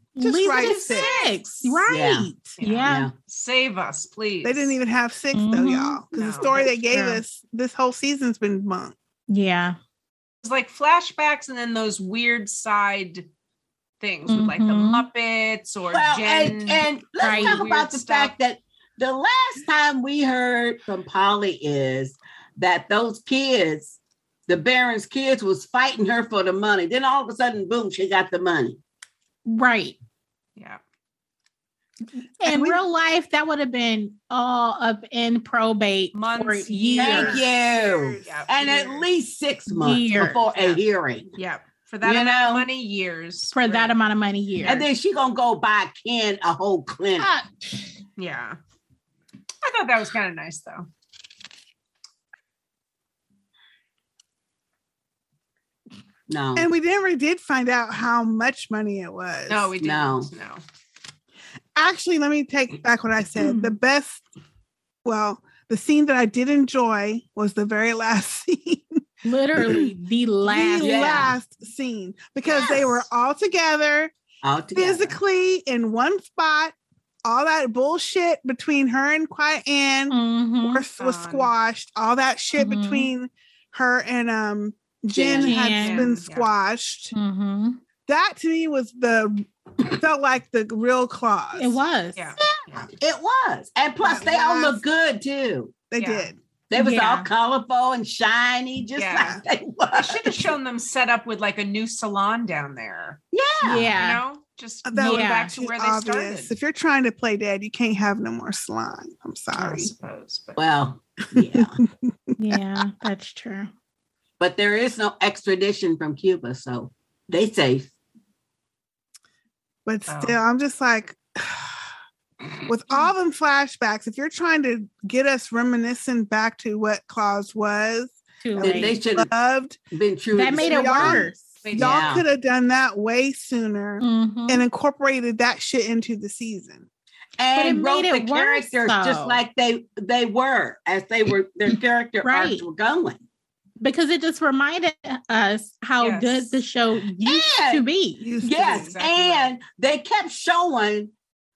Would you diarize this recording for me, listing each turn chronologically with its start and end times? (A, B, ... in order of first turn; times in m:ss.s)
0:00.2-0:03.1 A
0:00.2-0:01.1 B
0:00.6-0:01.8 C
0:01.9-0:03.1 D
0:02.6-0:04.7 C
0:04.4-0:08.9 B
0:05.3-0:06.0 A
0:06.1-0:06.6 C
0:06.2-0:06.7 D
0:06.8-0:07.2 A
0:09.3-0:09.8 A
0:10.4-0:13.3 C
0:14.0-0:18.3 C
0:14.3-0:15.1 A
0:15.9-0:24.0 D
0:17.2-0:17.6 A
0:24.5-0:28.8 D
0:29.5-0:30.0 A
0:32.4-0:37.4 A
0:32.4-0:32.8 B
0:36.1-0:37.5 C
0:37.0-0:41.3 D
0:37.2-0:38.2 B
0:38.2-0:39.0 C
0:39.7-0:40.4 A
0:40.5-0:40.8 C
0:41.4-0:44.0 C
0:42.0-0:42.6 D
0:43.5-0:44.8 A
0:44.6-0:47.3 D
0:47.2-0:47.8 A
0:48.2-0:48.6 C
0:49.6-0:50.9 C
0:56.3-0:56.7 D
0:56.6-0:59.7 B
0:59.5-1:00.6 C
0:59.8-1:00.3 D
1:01.8-1:04.2 B
1:03.4-1:03.7 A
1:05.0-1:08.9 B
1:09.2-1:11.3 A
1:09.6-1:09.9 B
1:10.4-1:14.1 B
1:10.8-1:11.4 D
1:12.4-1:13.0 C
1:14.4-1:15.2 D
1:14.7-1:27.1 B
1:20.1-1:20.8 A
1:21.0-1:21.5 C
1:22.6-1:23.1 A
1:25.1-1:25.8 D
1:25.4-1:26.1 A
1:25.8-1:26.5 C
1:27.1-1:27.8 A
1:28.1-1:29.5 B
1:30.0-1:31.8 B
1:31.6-1:32.2 A
1:32.2-1:32.9 C
1:32.5-1:35.8 D
1:34.0-1:34.8 B
1:35.9-1:36.4 B
1:36.0-1:36.3 C
1:36.7-1:40.5 D
1:36.7-1:37.3 A
1:39.0-1:39.4 C
1:39.9-1:43.2 C
1:43.3-1:43.9 D
1:43.6-1:44.2 A
1:43.9-1:46.5 C
1:44.9-1:49.9 B
1:45.0-1:45.5 A
1:49.5-1:50.6 C
1:50.6-1:51.7 D
1:51.5-1:51.9 B
1:52.4-1:53.7 A
1:54.4-1:57.9 D
1:59.8-2:01.7 B
2:00.1-2:00.4 C
2:02.7-2:09.8 B
2:08.4-2:09.0 A
2:08.6-2:09.3 D
2:09.9-2:12.2 D
2:10.3-2:11.6 A
2:10.5-2:16.8 B
2:11.6-2:12.2 C
2:14.0-2:14.6 A
2:17.4-2:23.2 D
2:17.5-2:19.4 A
2:22.2-2:22.6 A
2:23.8-2:28.3 A
2:26.0-2:26.6 C
2:27.2-2:27.8 D
2:28.2-2:28.9 B
2:28.4-2:31.1 D
2:28.5-2:29.5 C